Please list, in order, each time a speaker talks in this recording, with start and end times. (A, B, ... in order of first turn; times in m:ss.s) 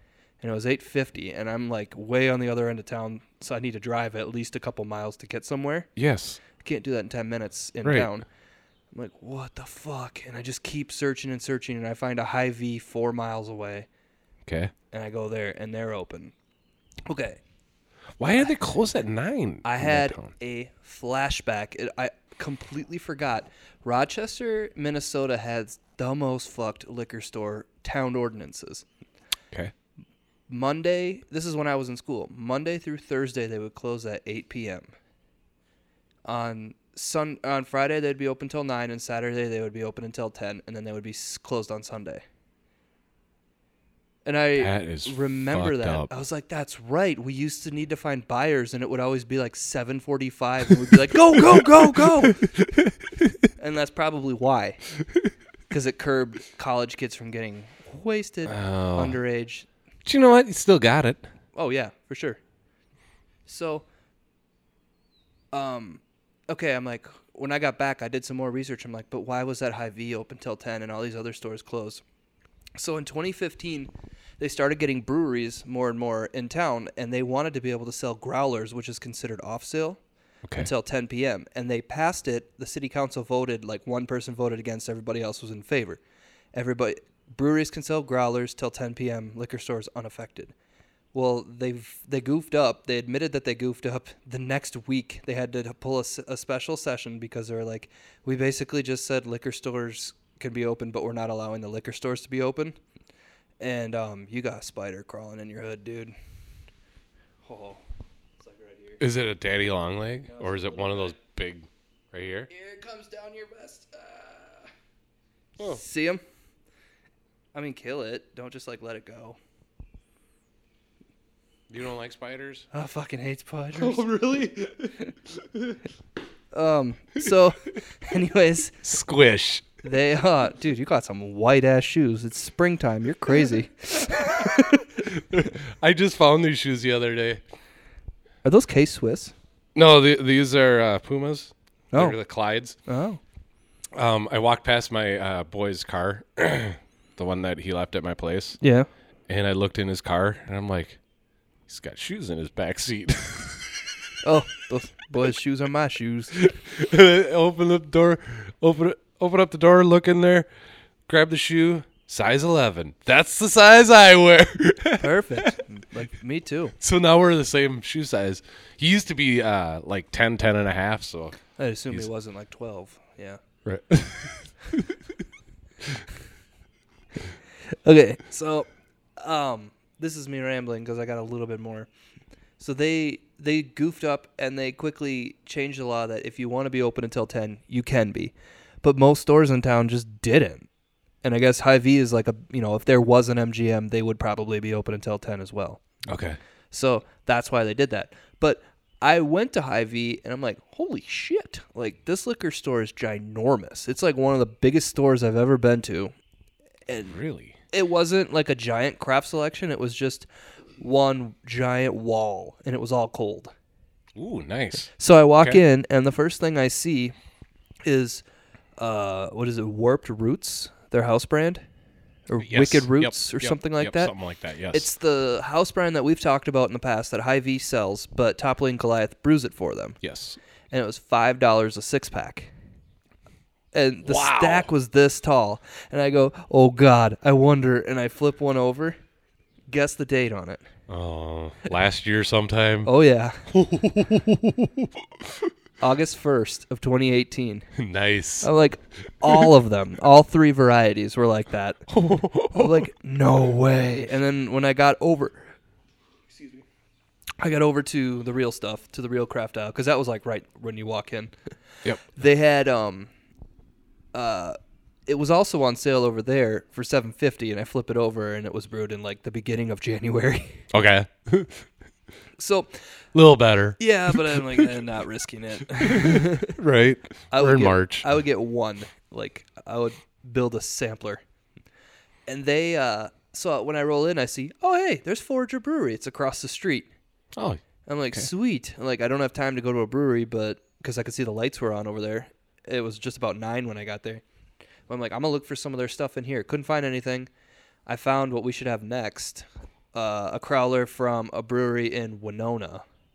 0:00.4-0:05.9 A
0:06.0-0:06.4 B
0:06.6-0:08.3 A
0:07.8-0:08.1 B
0:08.9-0:13.9 A
0:14.4-0:14.7 B
0:14.9-0:16.3 A
0:17.1-0:17.4 A
0:18.2-0:20.3 B
0:19.6-0:28.8 A
0:30.5-0:34.9 A
0:36.3-0:42.2 A
0:44.2-0:52.4 A
0:44.6-0:46.1 B
0:51.5-0:53.4 B
0:53.6-0:54.8 A
0:55.7-0:59.7 A
0:58.5-0:59.2 B
1:00.0-1:01.3 B
1:01.6-1:02.4 A
1:03.5-1:03.8 A
1:05.5-1:12.0 A
1:12.8-1:20.0 A
1:20.4-1:20.7 B
1:20.6-1:26.0 A
1:26.5-1:30.5 A
1:31.1-1:42.8 A
1:43.6-1:46.1 A
1:47.4-1:47.8 A
1:48.4-1:49.0 A
1:49.0-1:52.5 B
1:50.3-1:51.2 A
1:52.5-1:54.7 A
1:55.6-1:56.2 A
1:57.6-1:59.4 A
2:01.7-2:02.7 B
2:02.7-2:04.0 A
2:03.8-2:05.8 B
2:06.5-2:08.8 A
2:08.8-2:09.7 B
2:09.8-2:14.9 A
2:14.3-2:17.4 B
2:18.4-2:19.3 A
2:19.8-2:22.8 B
2:21.9-2:22.2 A
2:22.8-2:23.2 A
2:23.9-2:28.6 B
2:28.6-2:28.9 A
2:29.3-2:31.0 B
2:31.7-2:33.9 B
2:34.2-2:36.4 A
2:36.4-2:40.5 B
2:41.1-2:45.6 B
2:45.0-2:46.7 A
2:46.8-2:51.4 B
2:51.6-2:53.4 A
2:53.6-2:54.6 B
2:57.8-3:01.9 A
3:02.6-3:10.7 A
3:11.2-3:16.0 A
3:16.1-3:16.4 B
3:16.7-3:26.1 A
3:26.9-3:27.2 A
3:27.1-3:27.6 B
3:27.7-3:30.3 A
3:30.8-3:33.5 A
3:34.2-3:35.6 B
3:35.0-3:37.2 A
3:37.8-3:38.2 A
3:38.8-3:41.6 A
3:42.3-3:44.1 A
3:42.4-3:44.9 B
3:44.7-3:50.0 A
3:50.0-3:50.4 B
3:50.7-3:52.5 A
3:53.7-3:59.0 A
3:54.0-3:54.7 B
3:59.7-4:00.7 A
4:00.9-4:02.9 B
4:02.8-4:03.4 A
4:03.5-4:05.4 B
4:05.8-4:07.7 A
4:07.8-4:08.5 B
4:08.4-4:11.9 A
4:09.2-4:09.5 B
4:11.9-4:12.9 B
4:12.5-4:15.5 A
4:17.4-4:21.4 A
4:22.0-4:23.1 A
4:24.1-4:30.7 A
4:30.7-4:31.7 B
4:32.4-4:32.8 A
4:33.1-4:34.7 B
4:33.8-4:36.6 A
4:35.8-4:38.1 B
4:37.3-4:41.2 A
4:42.3-4:46.9 A
4:47.3-4:48.3 B
4:47.9-4:54.2 A
4:54.9-4:57.3 A
4:57.9-5:02.8 A